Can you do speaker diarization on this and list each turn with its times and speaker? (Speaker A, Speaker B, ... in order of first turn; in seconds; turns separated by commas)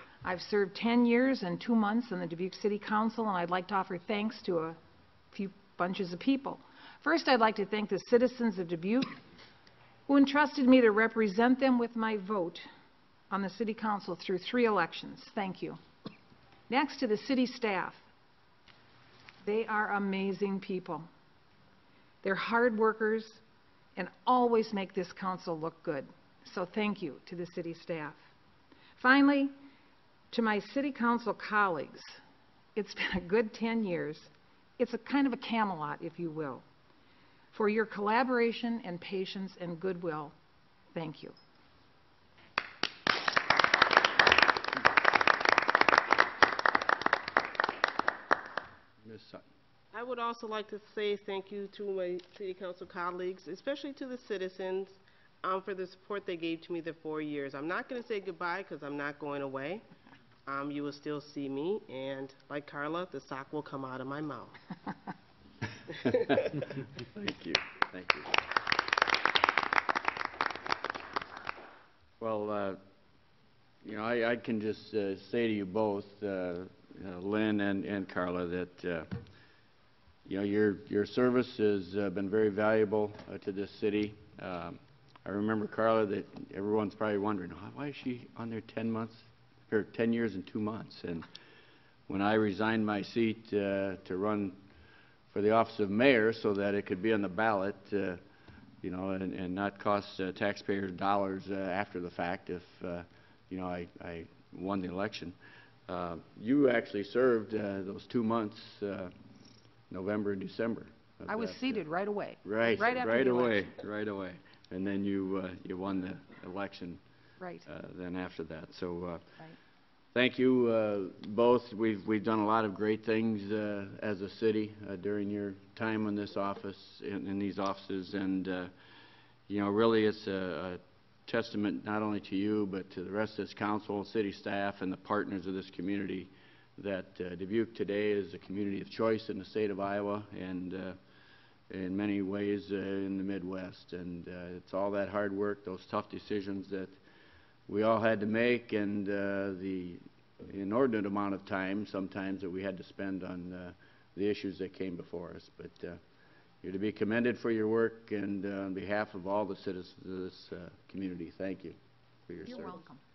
Speaker A: 0.2-4.8, Speaker A: 5.3-9.1, Speaker A: 10.1-12.7, Speaker A: 13.3-15.8, Speaker A: 16.7-18.0, Speaker A: 19.4-21.1, Speaker A: 22.2-23.4, Speaker A: 24.0-28.2, Speaker A: 29.0-29.5, Speaker A: 30.3-32.2, Speaker A: 32.8-36.6, Speaker A: 37.5-40.4, Speaker A: 41.0-41.4, Speaker B: 49.0-49.5, Speaker C: 49.9-59.8, Speaker C: 60.5-64.6, Speaker B: 65.9-68.3, Speaker B: 72.2-72.8, Speaker B: 73.8-79.1, Speaker B: 80.2-91.3, Speaker B: 92.1-94.6, Speaker B: 95.3-98.2, Speaker B: 98.8-105.4, Speaker B: 105.9-109.1, Speaker B: 109.9-111.8, Speaker A: 111.3-113.7, Speaker B: 112.4-117.0, Speaker A: 117.4-117.7, Speaker B: 117.7-119.3, Speaker B: 120.1-128.7, Speaker B: 129.5-141.0, Speaker B: 141.7-147.0, Speaker B: 147.7-156.0, Speaker B: 156.6-161.8, Speaker B: 162.3-162.9, Speaker A: 162.4-163.0